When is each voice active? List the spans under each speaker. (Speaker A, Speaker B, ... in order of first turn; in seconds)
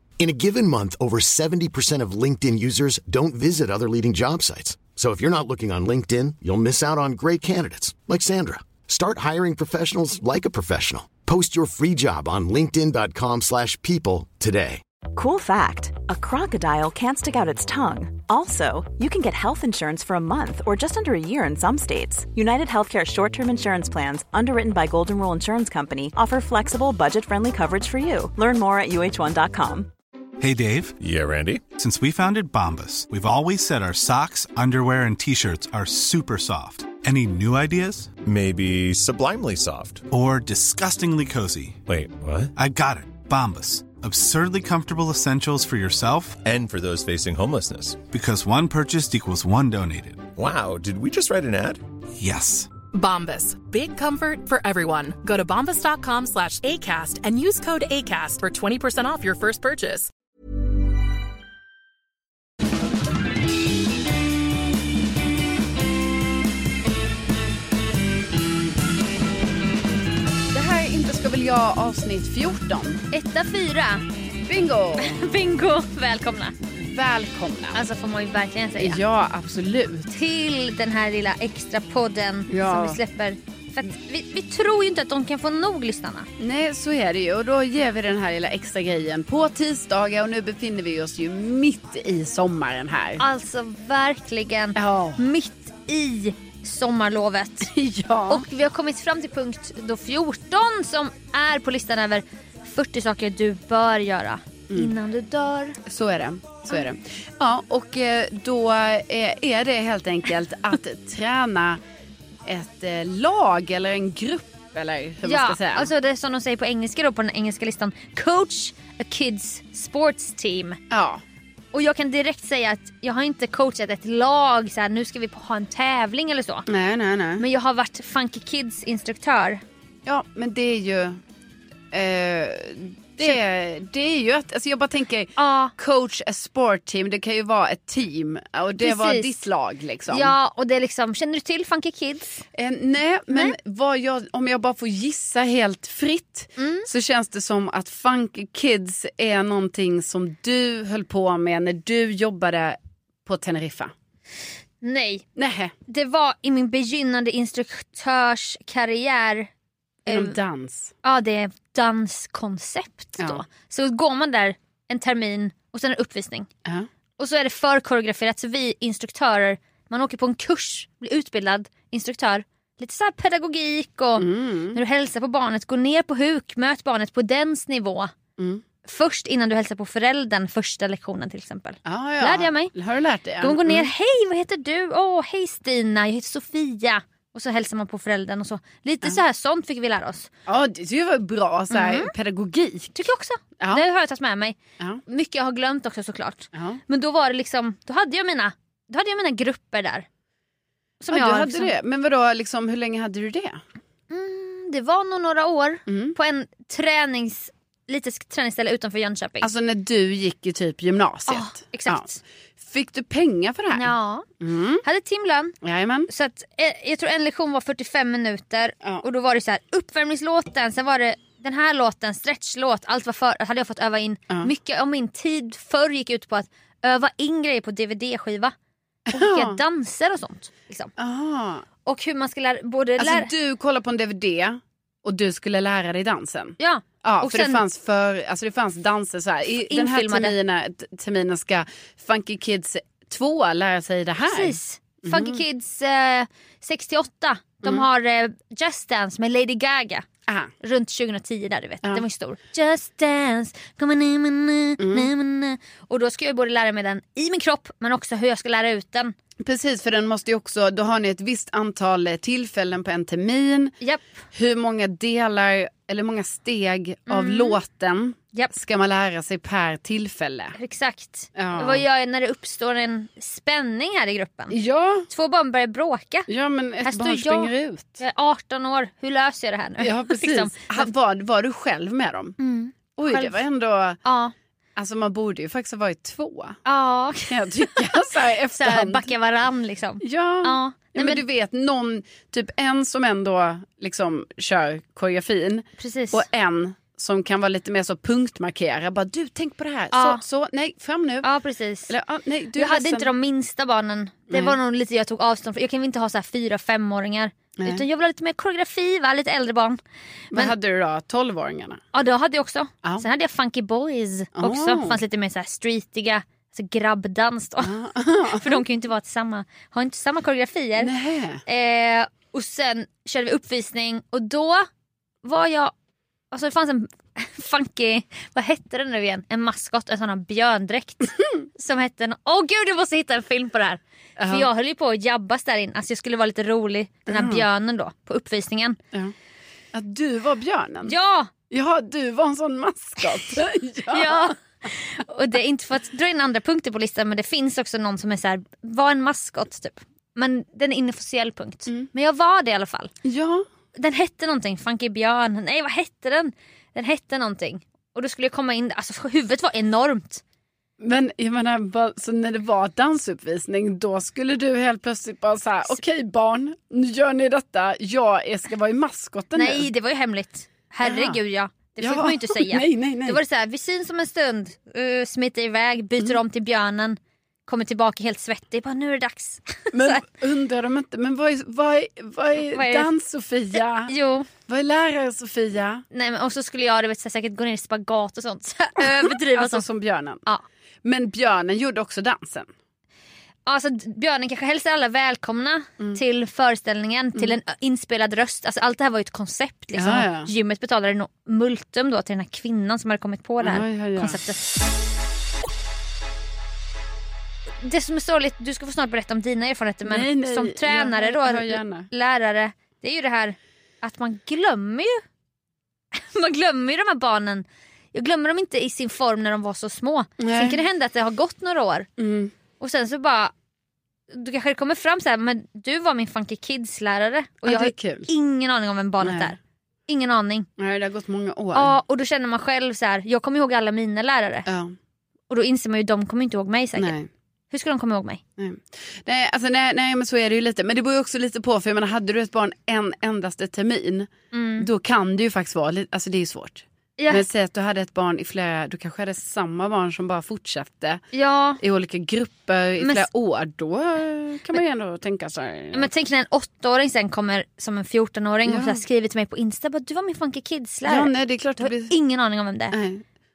Speaker A: 0.2-14.8
Speaker B: 15.1-29.9
Speaker C: 30.4-31.0, 31.7-38.1, 40.1-41.8, 42.5-46.4, 48.1-50.3, 52.2-52.8
Speaker D: 31.0-31.6, 38.2-40.0, 41.9-42.5, 46.4-48.0, 50.4-51.8
Speaker E: 52.9-60.1
Speaker F: 70.5-73.0, 74.5-75.2, 76.7-77.8, 78.8-80.1, 82.5-83.0, 86.4-93.2, 94.8-95.2, 97.6-98.4, 105.8-111.8, 112.5-115.9, 120.9-121.2, 126.7-127.4, 130.1-131.2, 131.9-140.3, 142.6-153.9, 155.3-155.7, 160.1-160.9, 163.2-163.4, 174.2-174.8, 178.4-178.6, 181.8-183.9, 190.5-192.9, 193.6-193.8, 196.5-196.8, 201.1-203.6, 205.9-206.2, 209.4-212.1, 212.6-214.8, 215.6-216.1, 229.1-229.6, 231.0-231.6, 233.0-245.4, 254.8-255.1, 259.4-263.7, 264.3-270.6, 271.3-271.8, 274.5-275.1, 276.3-278.0, 279.8-282.4, 283.0-284.0, 284.8-286.6, 287.3-289.1, 290.0-301.3, 301.9-303.1, 304.3-304.6, 307.6-307.8, 310.3-311.8, 314.3-315.0, 317.6-318.6, 320.8-321.4, 334.2-334.5, 337.1-337.4, 339.7-340.9, 341.5-344.3, 353.0-353.4, 360.8-369.7, 370.8-371.2, 371.8-373.2, 379.7-383.9, 384.5-385.8, 388.8-390.2, 390.8-392.5, 399.7-400.3, 403.4-404.2, 409.8-411.9, 420.2-420.6, 422.0-422.3, 427.4-428.1, 429.0-429.3, 430.6-431.7, 434.4-434.7, 436.8-437.1, 438.4-451.0, 451.6-455.9, 458.4-458.8, 460.9-461.9, 462.7-463.0
Speaker G: 73.1-74.0, 75.0-76.5, 77.7-79.0, 80.1-86.3, 93.2-97.7, 98.3-105.8, 115.2-120.8, 121.7-126.7, 127.4-129.6, 135.4-135.7, 138.8-139.3, 140.1-142.4, 146.6-146.9, 154.8-155.2, 155.9-159.5, 160.1-160.3, 161.0-166.5, 167.2-178.1, 178.8-182.7, 183.4-190.3, 191.7-192.1, 192.9-200.0, 201.0-201.7, 204.1-209.5, 211.3-212.2, 213.7-214.3, 214.8-215.5, 216.1-228.5, 229.1-230.9, 231.8-233.3, 236.6-237.6, 239.6-240.3, 244.2-250.0, 250.6-259.1, 267.1-267.6, 270.5-274.5, 275.1-276.3, 276.8-280.9, 282.4-283.4, 284.0-284.3, 286.6-287.7, 288.5-291.2, 295.8-296.2, 299.9-300.2, 301.2-301.9, 302.6-309.8, 311.9-317.7, 318.3-320.9, 321.4-324.6, 325.2-325.7, 326.3-338.8, 340.9-341.3, 343.9-352.9, 353.7-360.2, 369.3-380.1, 382.5-382.9, 383.9-384.3, 385.9-389.6, 393.4-404.4, 407.6-414.9, 415.9-421.9, 422.6-423.3, 424.1-430.5, 431.5-434.5, 435.3-436.9, 437.5-438.2, 444.3-444.7, 447.0-447.2, 451.1-451.6, 452.8-453.1, 455.7-462.7